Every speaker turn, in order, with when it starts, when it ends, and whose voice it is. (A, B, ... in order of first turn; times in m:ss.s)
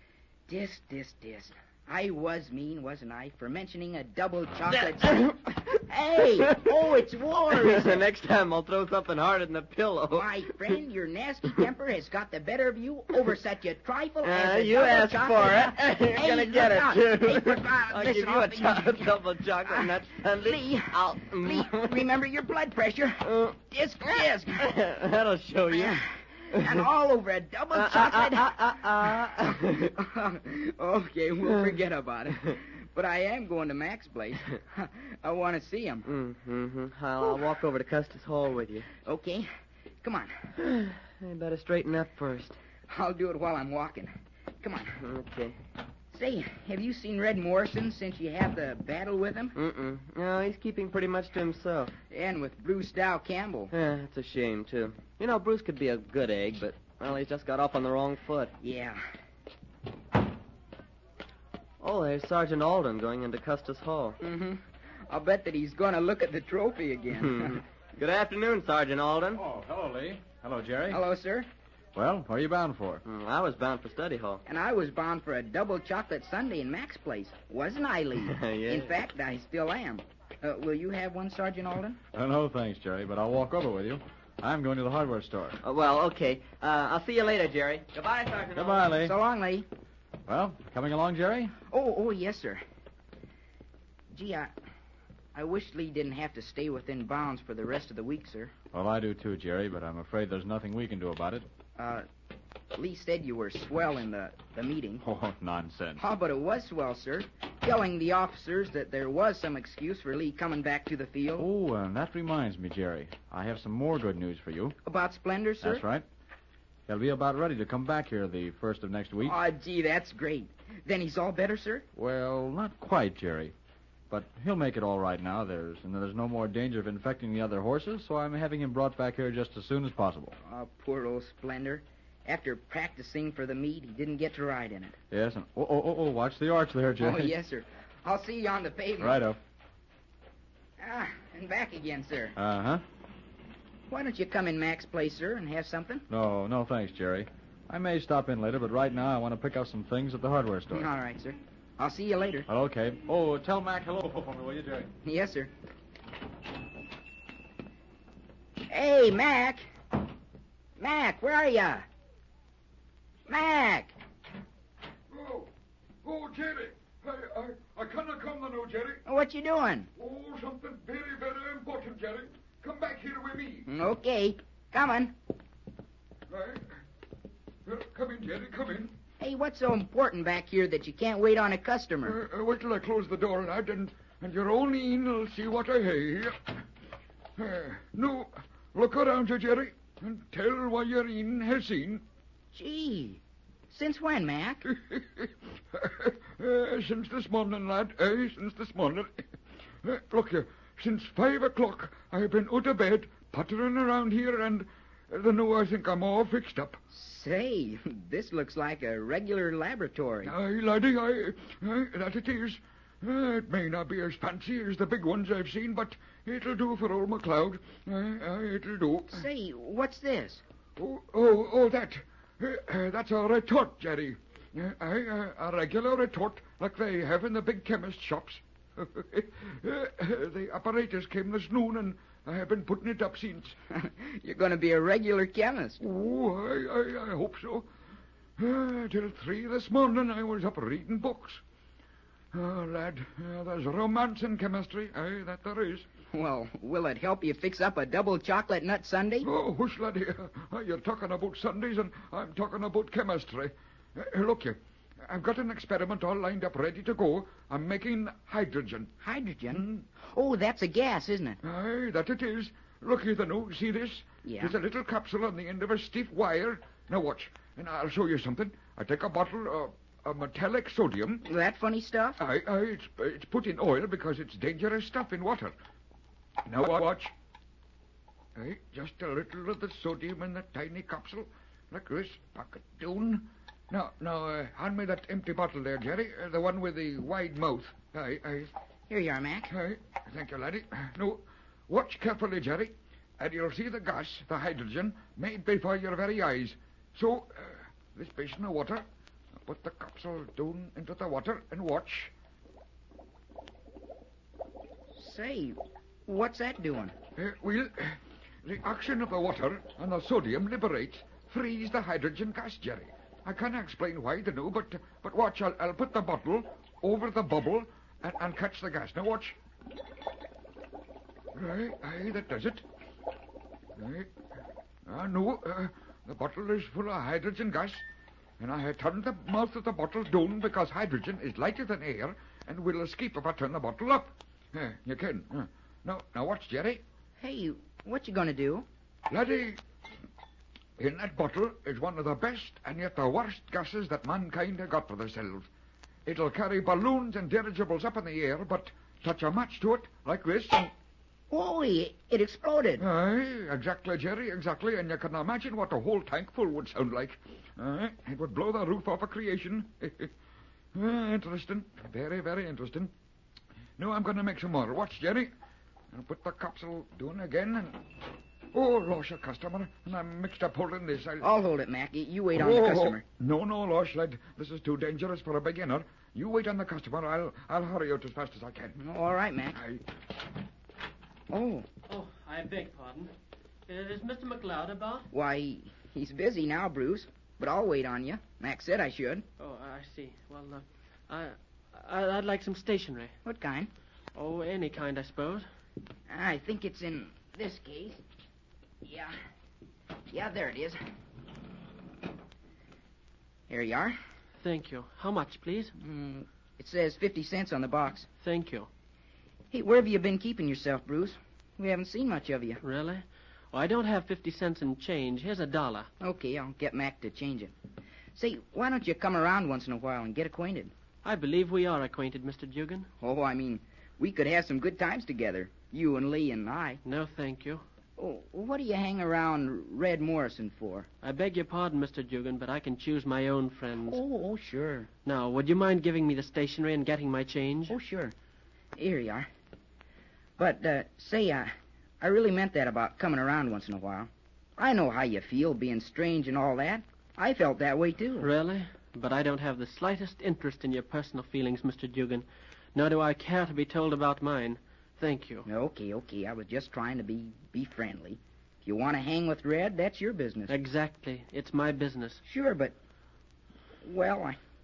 0:00.5-0:08.1 A
0:07.5-0:10.5 B
0:10.1-0:24.7 A
0:14.2-0:22.0 B
0:23.2-0:23.5 B
0:24.6-0:26.0 B
0:25.7-0:36.1 A
0:27.7-0:29.9 B
0:36.0-0:38.9 B
0:39.0-0:39.5 A
0:40.0-0:40.3 A
0:40.6-0:42.6 B
0:42.9-0:45.0 A
0:45.0-0:45.6 B
0:46.1-0:49.6 A
0:49.6-0:51.9 B
0:52.1-0:53.7 A
0:53.7-0:58.5 B
0:58.6-0:59.0 A
1:01.8-1:04.2 B
1:04.2-1:07.6 A
1:07.2-1:09.4 B
1:09.4-1:11.0 C
1:10.9-1:11.5 A
1:12.0-1:13.0 C
1:13.0-1:14.4 B
1:14.4-1:22.0 A
1:18.2-1:19.0 B
1:22.1-1:25.6 C
1:25.6-1:28.9 B
1:28.5-1:29.1 C
1:29.0-1:29.7 A
1:30.3-1:31.5 C
1:31.7-1:32.6 A
1:34.1-1:34.5 A
1:35.4-1:38.5 A
1:38.7-1:41.5 C
1:41.8-1:42.1 A
1:42.7-1:45.0 A
1:45.0-1:46.0 C
1:46.0-1:51.5 A
1:51.4-1:54.8 C
1:54.8-1:55.9 A
1:55.6-1:56.0 C
1:56.9-1:59.4 C
1:59.2-2:01.8 A
2:02.0-2:03.5 C
2:04.1-2:10.4 C
2:10.4-2:15.0 A
2:15.1-2:17.3 C
2:17.0-2:19.2 A
2:19.0-2:19.4 C
2:20.8-2:22.4 A
2:22.4-2:22.8 C
2:23.9-2:26.1 A
2:26.1-2:30.9 C
2:30.7-2:32.5 A
2:32.5-2:34.9 C
2:35.0-2:35.5 A
2:38.7-2:39.7 A
2:40.8-2:41.9 A
2:43.3-2:43.9 A
2:45.1-2:45.5 D
2:46.0-2:49.0 D
2:49.1-2:49.9 A
2:50.0-2:53.7 D
2:53.7-2:55.1 A
2:56.3-2:56.8 D
2:57.7-2:59.0 D
2:59.2-3:02.2 A
3:02.0-3:06.4 D
3:07.4-3:12.0 D
3:12.5-3:14.6 A
3:14.8-3:19.2 D
3:19.8-3:26.8 D
3:26.9-3:30.3 A
3:30.2-3:39.3 D
3:39.1-3:40.4 A
3:40.8-3:53.6 D
3:53.7-3:55.8 A
3:55.8-3:57.7 D
3:58.4-4:01.4 D
4:02.3-4:05.9 D
4:06.1-4:09.3 A
4:09.2-4:18.9 D
4:19.0-4:21.4 A
4:19.5-4:19.9 D
4:21.4-4:31.2 D
4:24.2-4:24.6 A
4:31.2-4:32.2 A
4:32.2-4:35.5 D
4:36.5-4:37.1 D
4:38.4-4:48.5 D
4:48.9-4:49.5 A
4:49.5-4:58.8 D
4:59.4-5:02.1 D
5:05.0-5:07.0 A
5:07.2-5:19.4 D
5:21.3-5:22.6 D
5:23.8-5:24.1 D
5:24.9-5:27.8 D
5:28.4-5:36.8 D
5:37.2-5:38.7 A
5:39.1-5:39.6 D
5:40.8-5:45.5 D
5:46.1-5:50.7 D
5:51.3-5:52.8 A
5:52.8-6:00.1 D
6:00.8-6:02.9 D
6:03.8-6:05.3 D
6:05.9-6:07.8 D
6:08.5-6:11.3 D
6:11.2-6:13.0 A
6:12.4-6:18.8 D
6:18.8-6:19.6 A
6:19.6-6:19.8 D
6:21.3-6:21.7 A
6:21.9-6:23.1 E
6:23.7-6:25.1 E
6:25.1-6:29.2 A
6:29.4-6:33.1 E
6:33.2-6:33.7 A
6:34.2-6:35.4 E
6:36.1-6:38.0 A
6:38.8-6:39.2 A
6:40.1-6:40.8 A
6:43.5-6:44.0 A
6:44.4-6:45.7 E
6:45.8-6:48.1 A
6:48.2-6:48.7 E
6:49.5-6:52.6 A
6:52.6-6:55.9 E
6:56.0-6:57.5 A
6:58.2-7:00.7 A
7:01.0-7:02.9 E
7:03.0-7:06.8 A
7:06.8-7:07.6 E
7:08.0-7:10.9 A
7:11.0-7:14.0 E
7:13.8-7:14.9 A
7:15.0-7:17.8 E
7:17.7-7:18.1 A
7:18.8-7:19.3 A
7:20.4-7:28.3 A
7:28.2-7:35.5 E
7:35.4-7:40.6 A
7:40.5-7:42.2 E
7:42.2-7:42.7 A
7:43.8-7:44.4 A